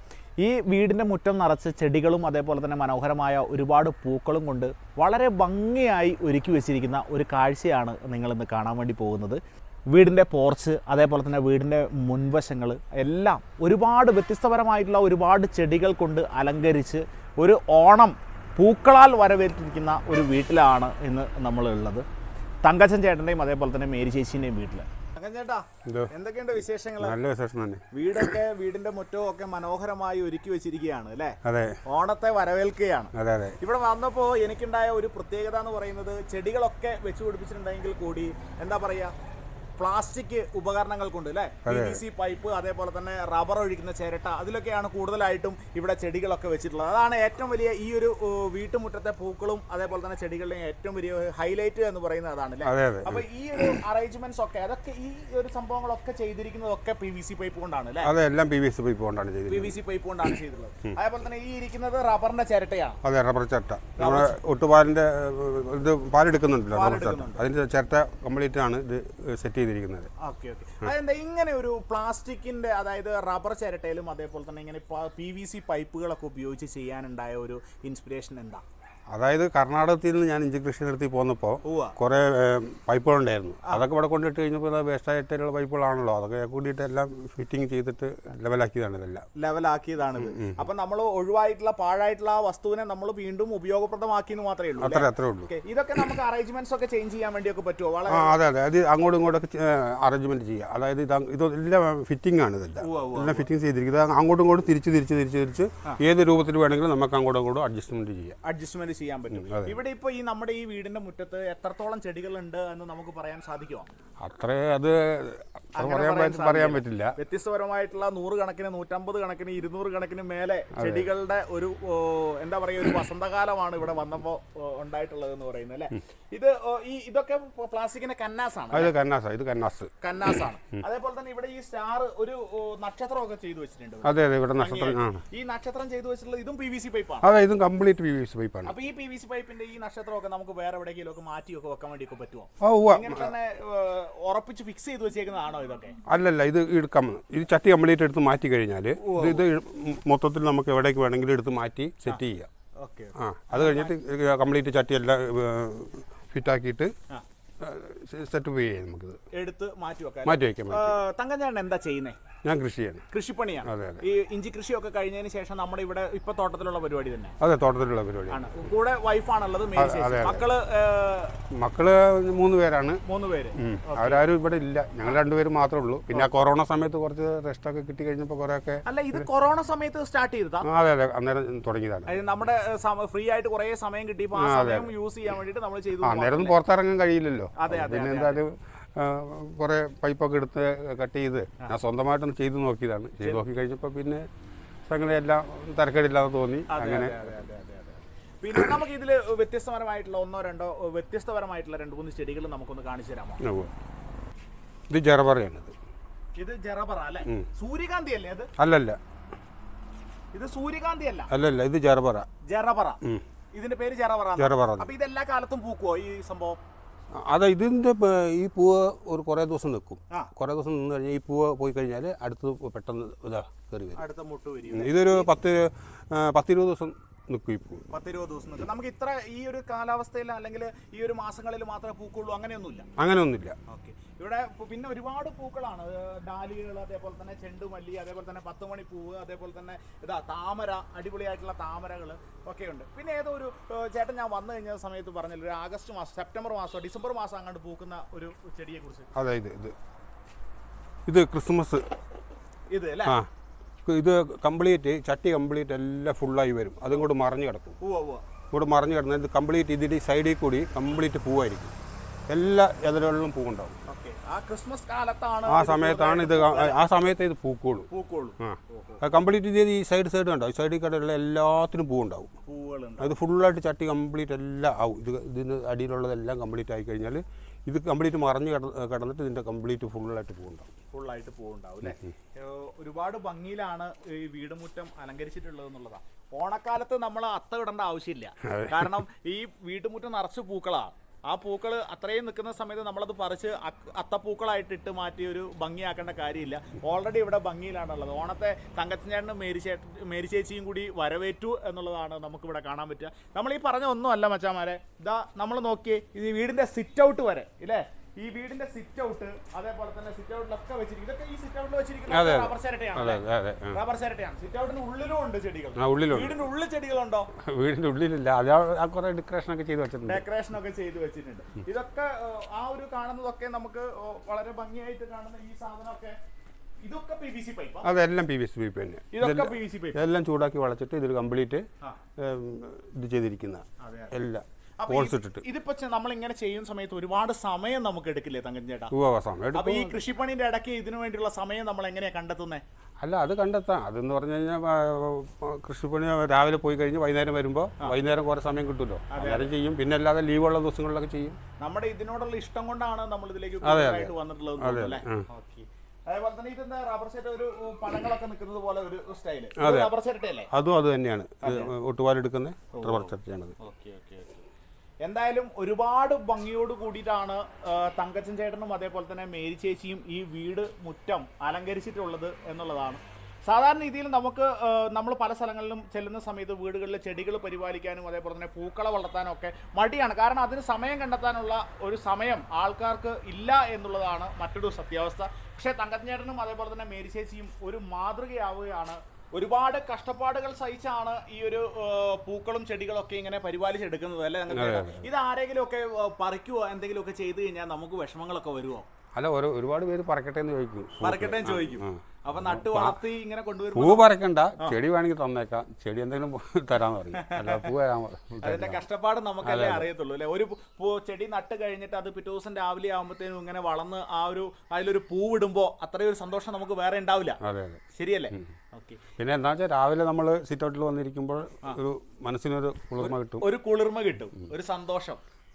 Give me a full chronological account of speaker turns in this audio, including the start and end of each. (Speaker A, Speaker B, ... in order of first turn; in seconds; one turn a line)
Speaker A: 0.4-9.4
Speaker A: 9.9-22.1
Speaker A: 22.6-27.2
Speaker B: 27.0-28.4
Speaker A: 27.9-39.1
Speaker B: 31.4-31.8
Speaker B: 33.1-33.6
Speaker A: 39.8-58.1
Speaker B: 41.6-42.0
Speaker B: 52.6-53.8
Speaker B: 58.0-60.4
Speaker A: 59.5-63.0
Speaker B: 63.0-70.1
Speaker A: 64.0-64.3
Speaker A: 66.7-67.4
Speaker A: 70.2-78.6
Speaker B: 79.1-89.3
Speaker A: 81.7-82.0
Speaker A: 89.4-98.4
Speaker B: 90.2-90.6
Speaker B: 94.8-95.5
Speaker B: 98.1-108.4
Speaker A: 102.8-103.5
Speaker A: 108.4-113.9
Speaker B: 109.3-109.8
Speaker B: 114.2-117.2
Speaker A: 115.8-128.9
Speaker B: 120.8-121.1
Speaker B: 128.7-129.9
Speaker A: 130.0-137.3
Speaker B: 134.1-135.2
Speaker B: 137.2-138.8
Speaker A: 138.7-146.0
Speaker B: 142.6-143.3
Speaker B: 146.1-152.5
Speaker A: 149.0-149.4
Speaker A: 152.8-153.9
Speaker B: 153.2-156.9
Speaker B: 157.6-159.2
Speaker A: 159.3-162.2
Speaker B: 160.3-161.0
Speaker B: 162.4-163.1
Speaker A: 163.1-167.3
Speaker B: 163.7-164.0
Speaker B: 167.4-168.7
Speaker A: 168.3-171.4
Speaker B: 169.8-170.4
Speaker B: 171.6-173.0
Speaker A: 173.1-174.2
Speaker B: 173.6-179.2
Speaker A: 178.9-180.7
Speaker B: 180.7-182.1
Speaker A: 182.1-186.6
Speaker B: 184.4-184.9
Speaker B: 186.0-194.2
Speaker A: 187.6-188.4
Speaker B: 194.9-197.3
Speaker A: 196.7-203.4
Speaker B: 203.4-203.7
Speaker B: 204.9-205.7
Speaker A: 206.4-208.5
Speaker B: 208.6-209.0
Speaker A: 210.3-211.3
Speaker B: 211.3-212.3
Speaker A: 212.4-213.0
Speaker A: 213.5-216.6
Speaker B: 214.4-214.9
Speaker B: 217.2-224.0
Speaker A: 223.9-225.3
Speaker B: 224.7-227.8
Speaker A: 227.9-232.9
Speaker B: 233.0-233.6
Speaker A: 233.7-249.1
Speaker B: 249.2-249.8
Speaker B: 251.1-251.8
Speaker A: 252.7-253.2
Speaker B: 253.9-257.8
Speaker A: 257.8-258.2
Speaker B: 258.5-261.8
Speaker B: 262.3-263.8
Speaker A: 263.9-266.8
Speaker B: 265.5-267.9
Speaker A: 267.9-269.0
Speaker B: 268.4-272.3
Speaker A: 272.5-273.2
Speaker B: 273.0-280.7
Speaker A: 280.9-317.3
Speaker B: 288.5-289.0
Speaker B: 312.1-313.8
Speaker B: 315.8-316.4
Speaker B: 317.4-320.2
Speaker A: 320.1-326.2
Speaker A: 326.9-327.9
Speaker B: 327.8-331.6
Speaker A: 329.1-330.0
Speaker B: 332.2-335.4
Speaker A: 333.8-334.1
Speaker A: 334.8-338.9
Speaker B: 338.9-340.0
Speaker A: 339.5-342.6
Speaker B: 343.0-351.4
Speaker A: 349.1-349.5
Speaker A: 351.6-360.5
Speaker B: 353.6-355.2
Speaker B: 359.6-359.9
Speaker B: 360.5-363.6
Speaker A: 361.4-361.7
Speaker A: 362.7-364.3
Speaker A: 365.0-398.9
Speaker B: 394.5-395.1
Speaker B: 399.2-403.0
Speaker A: 401.0-404.8
Speaker B: 403.7-408.8
Speaker A: 407.2-407.7
Speaker A: 408.4-417.4
Speaker B: 409.4-409.9
Speaker B: 417.4-417.8
Speaker A: 417.9-419.0
Speaker B: 419.2-423.5
Speaker A: 423.0-425.2